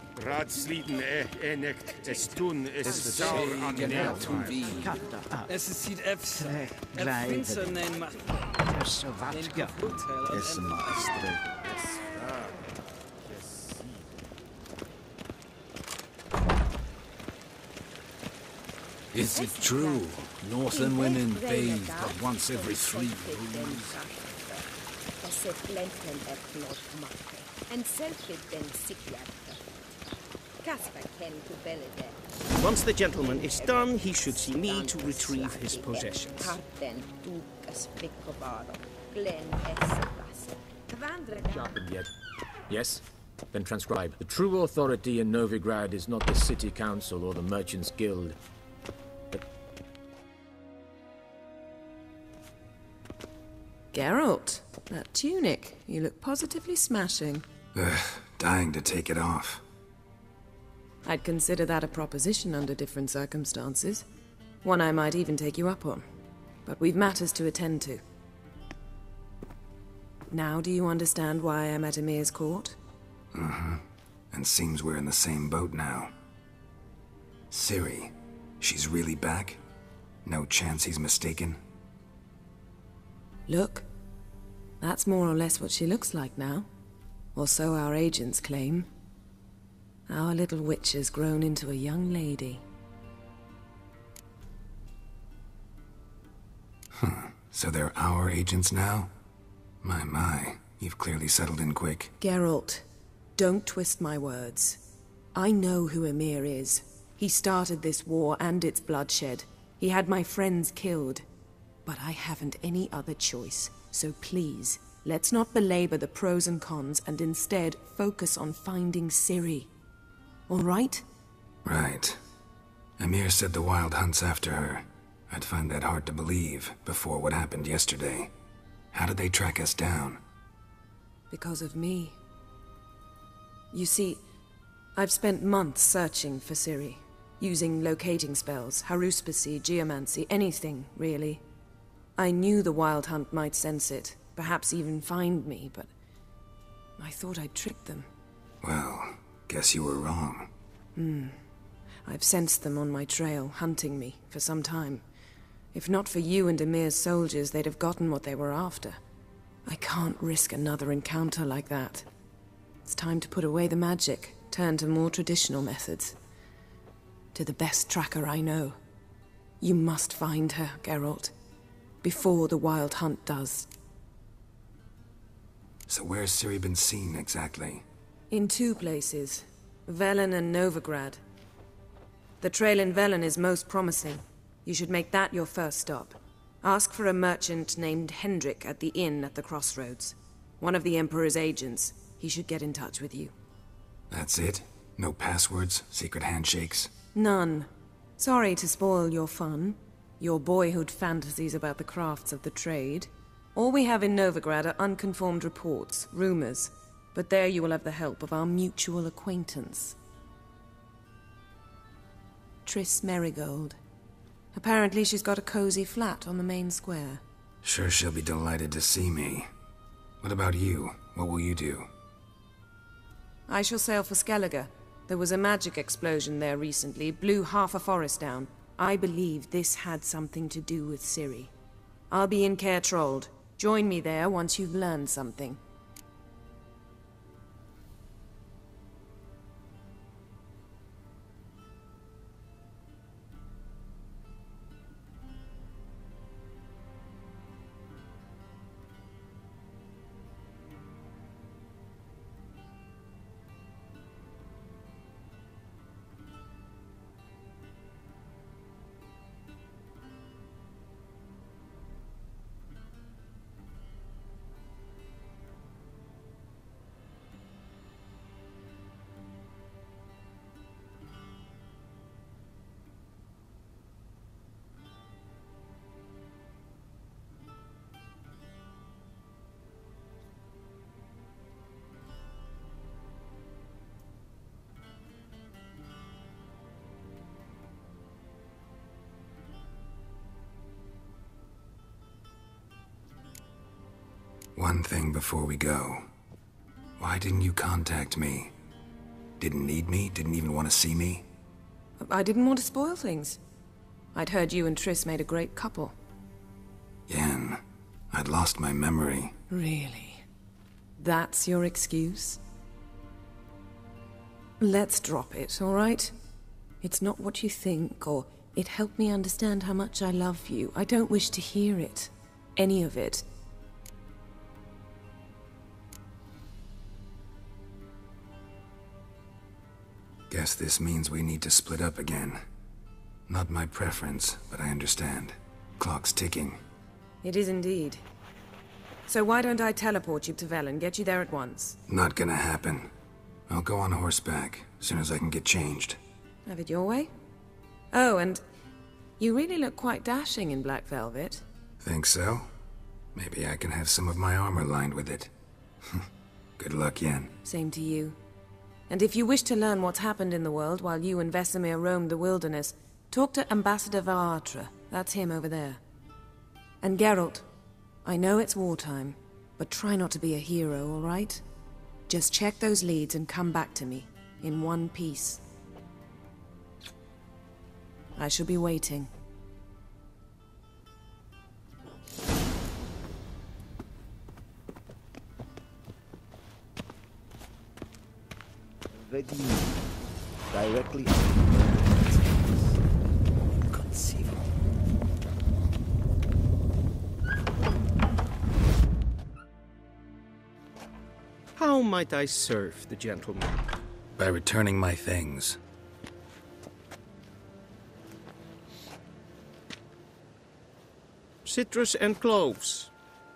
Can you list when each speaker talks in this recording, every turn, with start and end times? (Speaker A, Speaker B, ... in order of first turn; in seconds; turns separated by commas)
Speaker A: 0.2-4.7, Speaker B: 2.0-4.1, Speaker C: 3.2-5.1, Speaker D: 3.8-4.4, Speaker E: 3.9-5.5, Speaker D: 5.5-8.6, Speaker E: 6.4-7.7, Speaker E: 8.7-11.4, Speaker D: 9.3-11.2, Speaker C: 19.1-24.0, Speaker F: 19.1-30.0, Speaker F: 30.6-32.2, Speaker B: 32.5-36.6, Speaker F: 33.2-41.8, Speaker C: 41.3-42.1, Speaker C: 42.7-48.4, Speaker G: 53.9-57.5, Speaker H: 57.8-59.6, Speaker G: 61.0-64.0, Speaker G: 64.6-66.0, Speaker G: 66.7-68.0, Speaker G: 70.3-72.8, Speaker H: 73.3-76.1, Speaker H: 77.5-79.6, Speaker H: 80.2-81.6, Speaker G: 83.5-83.9, Speaker G: 84.8-86.7, Speaker G: 87.3-88.9, Speaker G: 90.1-92.6, Speaker H: 96.9-99.1, Speaker H: 99.8-102.1, Speaker G: 102.2-102.8, Speaker G: 103.4-104.8, Speaker G: 105.3-111.2, Speaker G: 111.9-119.7, Speaker G: 120.5-121.0, Speaker H: 121.7-122.2, Speaker H: 123.0-128.3, Speaker H: 128.9-130.2, Speaker G: 131.3-132.2, Speaker G: 133.7-134.2, Speaker G: 135.0-141.4, Speaker G: 142.2-145.9, Speaker G: 147.0-148.1, Speaker H: 148.6-150.5, Speaker G: 151.0-151.4, Speaker G: 152.1-155.0, Speaker G: 155.7-159.0, Speaker G: 159.7-162.1, Speaker G: 162.8-166.2, Speaker G: 167.3-168.8, Speaker G: 169.6-171.3, Speaker G: 172.0-173.7, Speaker H: 175.9-177.8, Speaker G: 178.3-181.2, Speaker G: 182.4-193.3, Speaker H: 194.1-196.9, Speaker G: 197.1-210.0, Speaker G: 212.7-213.8, Speaker G: 214.5-217.2, Speaker H: 217.6-219.5, Speaker H: 220.2-221.9, Speaker G: 223.5-231.5, Speaker G: 232.1-235.6, Speaker H: 294.6-296.1, Speaker H: 297.0-298.5, Speaker H: 299.4-301.2, Speaker G: 302.0-303.4, Speaker G: 304.1-305.9, Speaker H: 307.1-307.6, Speaker H: 308.1-309.3, Speaker G: 309.5-310.2, Speaker G: 311.0-312.4, Speaker G: 314.6-316.1, Speaker G: 316.8-323.2, Speaker H: 330.3-332.4, Speaker H: 333.3-336.6, Speaker G: 337.2-338.0, Speaker G: 339.1-341.8, Speaker H: 341.9-342.9, Speaker H: 343.5-346.0, Speaker G: 346.5-347.1, Speaker G: 347.9-348.4, Speaker G: 349.2-351.4, Speaker H: 351.8-352.5, Speaker H: 353.1-355.3, Speaker H: 356.6-357.4, Speaker G: 357.4-358.2, Speaker G: 358.9-365.8, Speaker G: 366.8-367.5, Speaker G: 368.1-371.4, Speaker G: 372.1-375.4, Speaker G: 378.2-379.1, Speaker E: 388.9-389.8, Speaker E: 390.5-392.5, Speaker B: 401.6-403.6, Speaker H: 404.2-405.6, Speaker B: 411.4-412.9